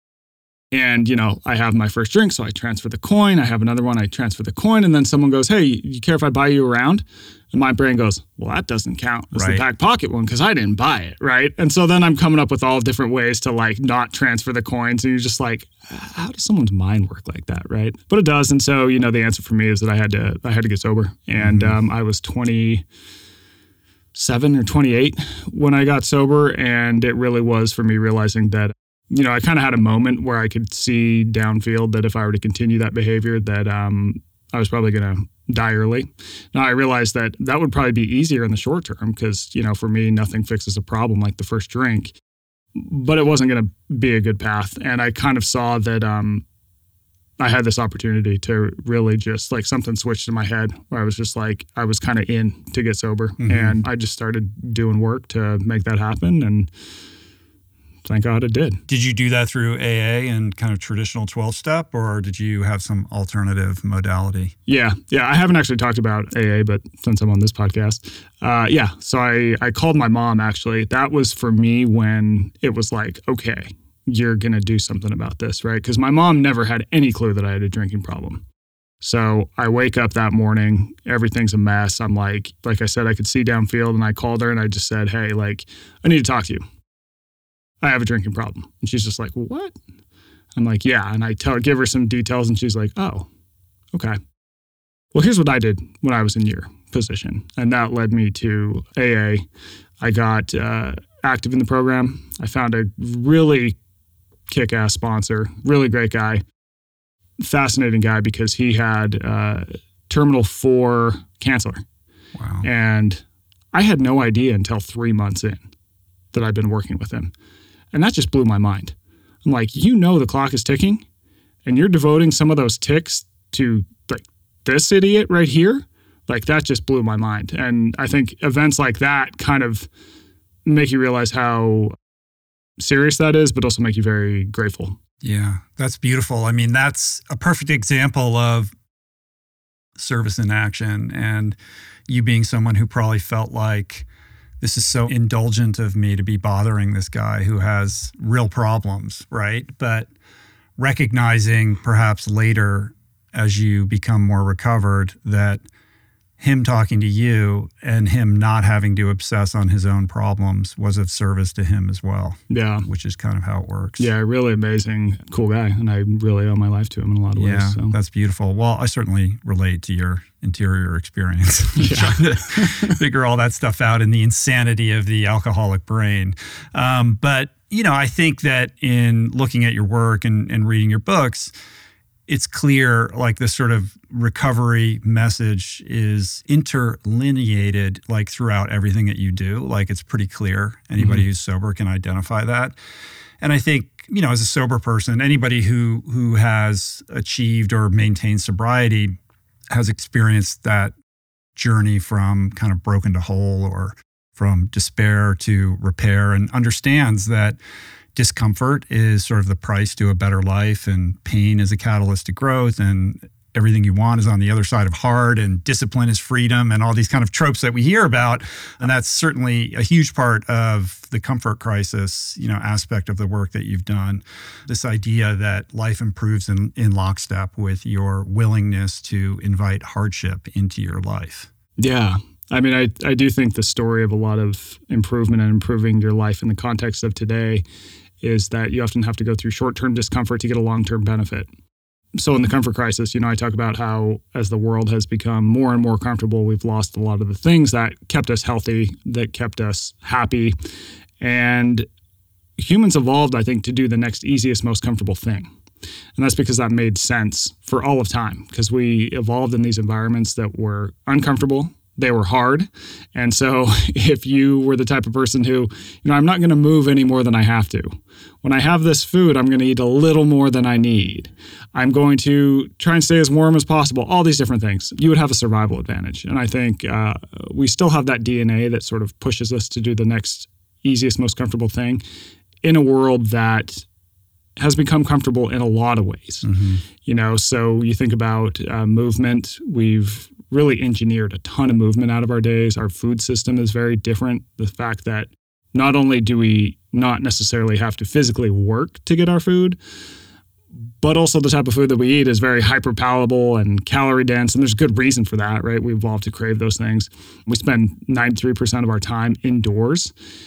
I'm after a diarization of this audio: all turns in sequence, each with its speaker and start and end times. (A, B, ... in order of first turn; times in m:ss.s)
0:00.7-0:22.8 A
0:09.3-0:09.6 B
0:21.4-0:21.8 B
0:24.2-0:42.2 A
0:42.8-0:46.4 A
0:47.4-0:56.7 A
0:53.4-0:53.8 B
0:58.0-0:58.8 A
0:58.9-1:04.6 B
1:04.7-1:18.4 A
1:19.0-1:26.6 A
1:27.8-1:29.8 A
1:30.6-1:33.3 A
1:33.9-1:34.2 A
1:35.1-1:39.4 A
1:40.0-1:43.8 A
1:44.5-1:46.4 A
1:47.4-1:51.8 A
1:52.4-1:52.7 B
1:52.6-1:55.6 A
1:56.3-1:57.3 A
1:57.9-2:01.0 A
2:01.6-2:09.9 A
2:10.6-2:11.9 A
2:12.8-2:15.0 A
2:15.2-2:18.7 B
2:20.0-2:21.6 B
2:22.1-2:24.1 B
2:24.6-2:30.1 B
2:30.8-2:35.6 B
2:36.4-2:44.1 B
2:42.5-2:42.8 A
2:44.0-2:47.9 A
2:47.4-3:01.5 B
2:51.8-2:52.9 A
3:02.3-3:12.8 B
3:11.0-3:11.2 A
3:13.4-3:19.2 B
3:19.7-3:20.9 B
3:21.6-3:27.6 B
3:28.2-3:51.5 B
3:51.8-3:57.6 A
3:58.2-4:01.5 A
4:02.2-4:10.6 A
4:11.2-4:11.9 A
4:12.6-4:15.5 A
4:16.2-4:42.0 A
4:42.6-4:43.8 A
4:44.6-4:46.4 A
4:46.4-4:46.8 B
4:47.0-4:59.8 A
5:01.0-5:10.1 A